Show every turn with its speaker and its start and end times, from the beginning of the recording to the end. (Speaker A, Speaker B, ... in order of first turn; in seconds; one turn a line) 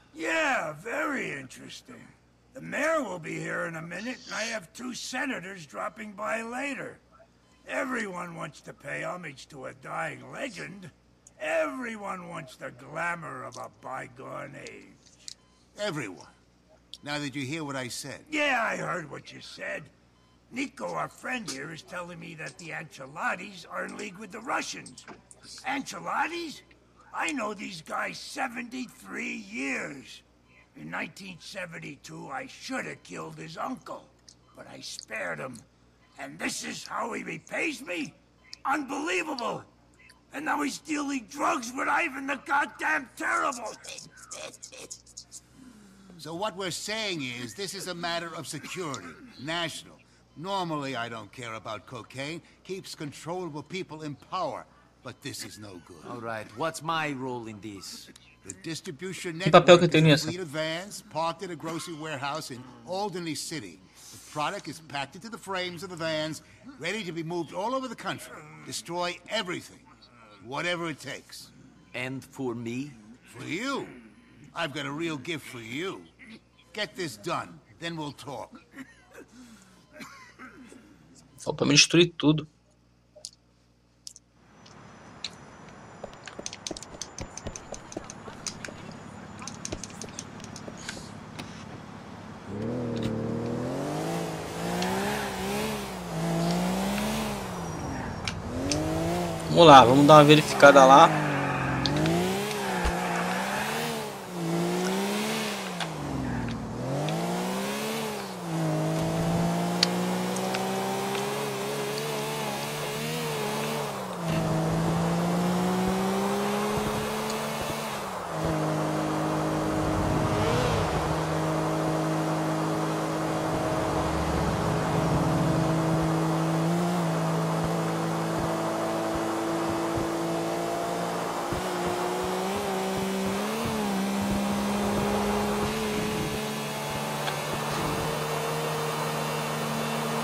Speaker A: 0.1-7.0
Speaker A: 7.7-15.3
Speaker B: 15.8-16.3
Speaker B: 17.0-18.3
Speaker A: 18.3-19.9
Speaker A: 20.5-25.1
Speaker A: 25.6-30.2
Speaker A: 30.8-35.7
Speaker A: 36.2-39.7
Speaker A: 40.3-43.9
Speaker B: 46.2-56.2
Speaker C: 56.2-58.0
Speaker B: 58.4-69.9
Speaker D: 59.5-60.3
Speaker B: 70.4-71.5
Speaker C: 72.0-72.9
Speaker B: 73.3-74.0
Speaker B: 74.5-76.1
Speaker B: 76.7-78.6
Speaker D: 81.4-82.5
Speaker D: 99.5-101.1